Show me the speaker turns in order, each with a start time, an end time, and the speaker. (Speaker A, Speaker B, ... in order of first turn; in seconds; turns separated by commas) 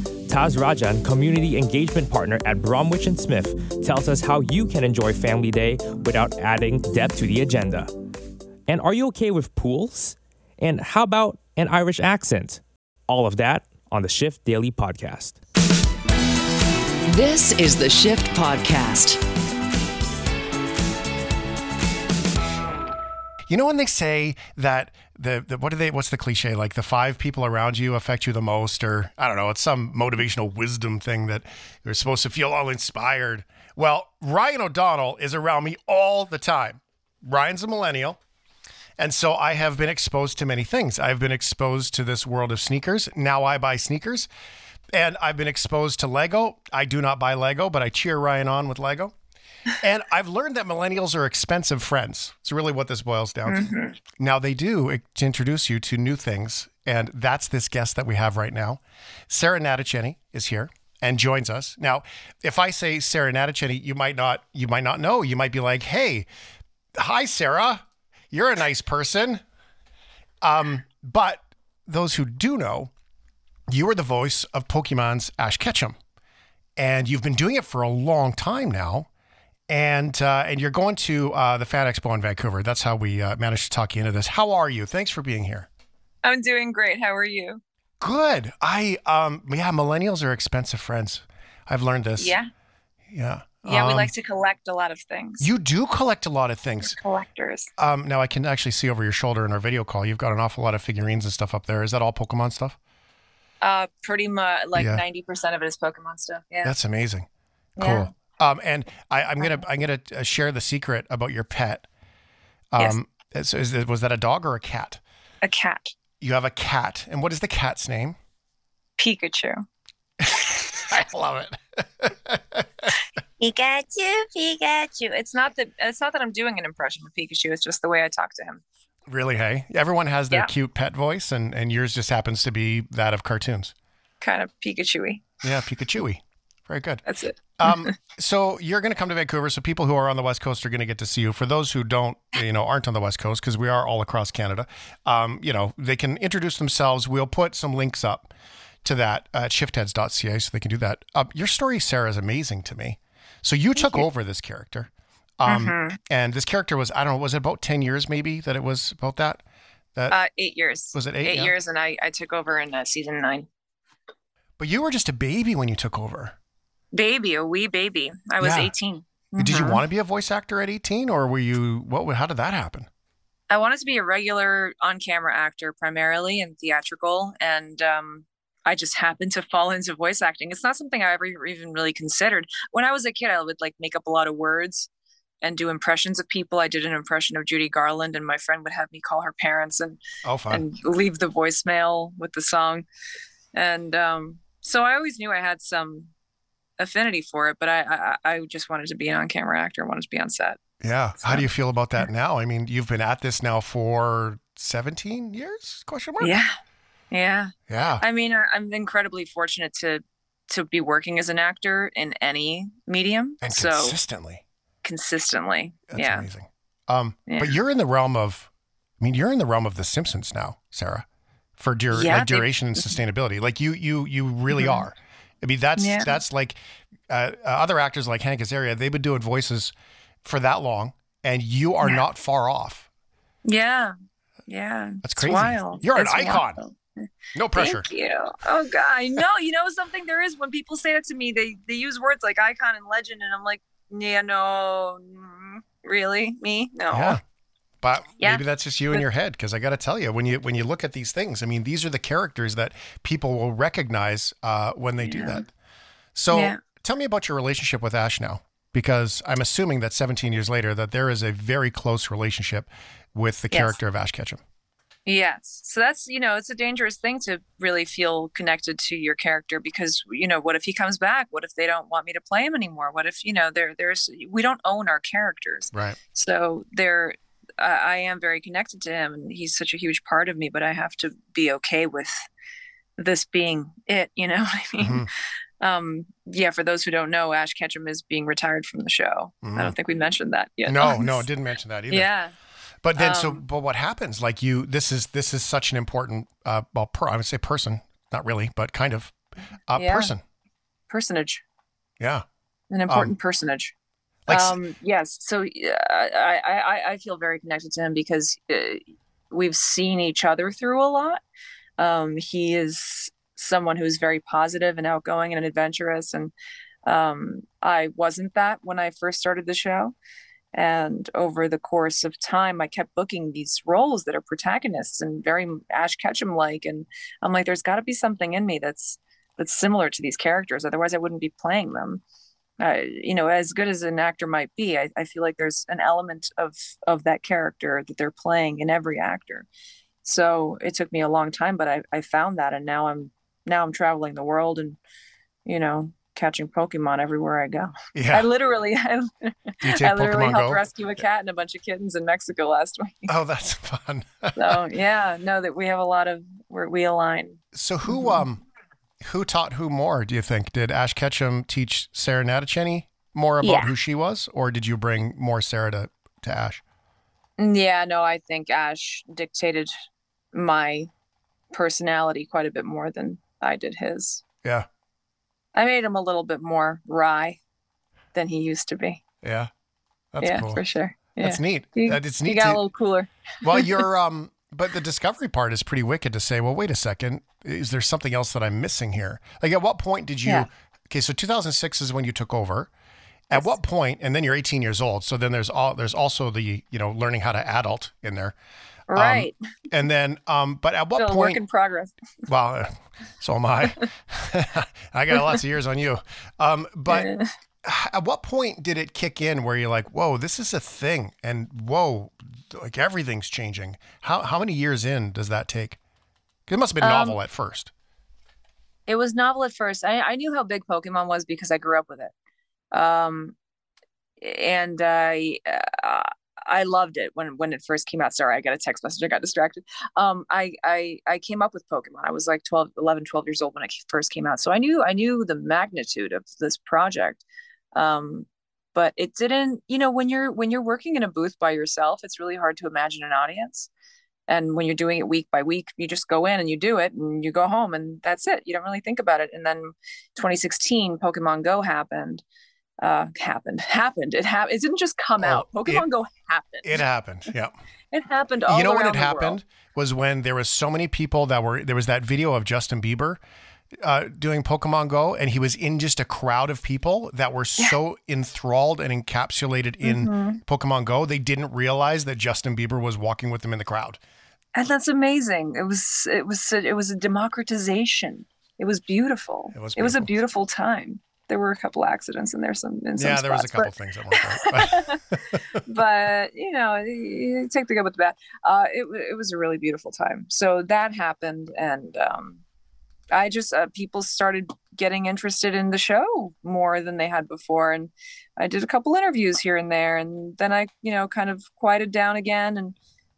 Speaker A: 0.3-7.9, Speaker A: 8.7-15.4, Speaker B: 17.1-19.2, Speaker C: 23.5-38.2, Speaker C: 39.0-44.3, Speaker C: 44.9-49.1, Speaker C: 49.8-66.3, Speaker D: 53.5-54.0, Speaker C: 66.9-69.4, Speaker C: 70.4-72.9, Speaker C: 73.7-76.0, Speaker C: 76.8-79.1, Speaker C: 79.7-85.7, Speaker D: 86.2-87.6, Speaker C: 88.0-92.3, Speaker D: 92.2-92.5, Speaker C: 93.1-94.1, Speaker D: 93.6-95.5, Speaker C: 95.4-97.0, Speaker D: 96.8-97.7, Speaker C: 97.8-102.8, Speaker D: 103.6-106.7, Speaker C: 104.7-105.0, Speaker C: 106.6-111.8, Speaker D: 107.8-108.1, Speaker C: 112.7-115.0, Speaker D: 115.4-116.0, Speaker C: 116.2-118.2, Speaker D: 119.0-119.6, Speaker C: 120.2-122.9, Speaker D: 123.4-128.6, Speaker C: 129.1-133.7, Speaker D: 134.2-135.2, Speaker C: 135.4-137.0, Speaker D: 137.1-137.9, Speaker C: 137.6-148.3, Speaker C: 148.8-159.4, Speaker D: 153.8-154.1, Speaker D: 155.5-156.0, Speaker D: 160.1-163.5, Speaker C: 160.9-161.5, Speaker C: 164.6-166.3, Speaker D: 166.9-169.8, Speaker C: 168.4-168.7, Speaker C: 169.4-172.9, Speaker D: 173.5-184.9, Speaker D: 185.4-192.8, Speaker C: 190.2-190.6, Speaker D: 193.5-196.1, Speaker D: 196.8-200.6, Speaker C: 200.8-206.3, Speaker D: 201.2-201.4, Speaker D: 206.2-206.5, Speaker D: 207.1-214.0, Speaker C: 207.7-208.0, Speaker C: 213.4-214.4, Speaker D: 214.8-216.3, Speaker C: 215.9-221.1, Speaker D: 217.3-217.5, Speaker C: 221.6-232.9, Speaker D: 221.9-222.9, Speaker D: 224.6-224.8, Speaker D: 225.8-226.1, Speaker D: 233.4-233.9, Speaker D: 234.5-237.0, Speaker C: 235.0-236.6, Speaker C: 237.3-237.9, Speaker D: 237.5-247.2, Speaker C: 246.9-247.2, Speaker C: 247.8-255.5, Speaker D: 248.2-249.0, Speaker D: 255.0-255.4, Speaker C: 256.1-264.4, Speaker D: 256.3-256.6, Speaker D: 263.5-263.8, Speaker D: 265.1-282.1, Speaker C: 275.7-276.0, Speaker D: 283.0-285.1, Speaker C: 284.8-285.1, Speaker D: 285.6-291.3, Speaker C: 289.4-289.8, Speaker C: 290.6-292.1, Speaker D: 291.9-292.3, Speaker C: 292.8-299.1, Speaker D: 293.0-293.4, Speaker C: 299.7-300.2, Speaker D: 299.7-300.1, Speaker D: 300.9-301.4, Speaker C: 302.0-302.2, Speaker D: 302.7-303.7, Speaker C: 302.9-303.1, Speaker C: 304.3-304.6, Speaker D: 304.3-311.2, Speaker D: 311.8-316.3, Speaker D: 316.9-319.9, Speaker D: 320.5-332.0, Speaker D: 332.6-339.5, Speaker D: 340.0-344.8, Speaker D: 345.4-353.1, Speaker C: 347.9-348.3, Speaker C: 349.6-350.6, Speaker C: 353.1-354.6, Speaker D: 354.4-358.2, Speaker C: 357.5-358.4, Speaker C: 359.0-366.6, Speaker D: 363.4-363.7, Speaker D: 367.4-369.7, Speaker D: 370.3-370.9, Speaker D: 371.5-374.2, Speaker D: 375.5-377.4, Speaker D: 378.1-379.0, Speaker C: 379.2-379.5, Speaker C: 380.1-380.6, Speaker D: 380.2-383.8, Speaker C: 381.2-382.6, Speaker C: 383.4-392.7, Speaker C: 393.3-398.3, Speaker D: 398.9-399.4, Speaker C: 398.9-401.4, Speaker D: 400.9-401.9, Speaker C: 402.3-407.1, Speaker D: 406.9-407.3, Speaker C: 407.6-415.8, Speaker C: 416.5-417.7, Speaker D: 416.8-417.2, Speaker D: 418.9-422.1, Speaker D: 422.7-423.3, Speaker D: 424.2-443.7, Speaker D: 444.3-452.2, Speaker D: 452.8-456.8, Speaker C: 455.2-455.9, Speaker C: 456.6-457.5, Speaker D: 457.9-459.4, Speaker C: 458.5-463.2, Speaker C: 463.8-474.0, Speaker D: 469.8-470.4, Speaker D: 474.5-485.0, Speaker C: 479.5-480.1, Speaker C: 483.0-485.6, Speaker D: 485.6-492.4, Speaker D: 493.1-502.8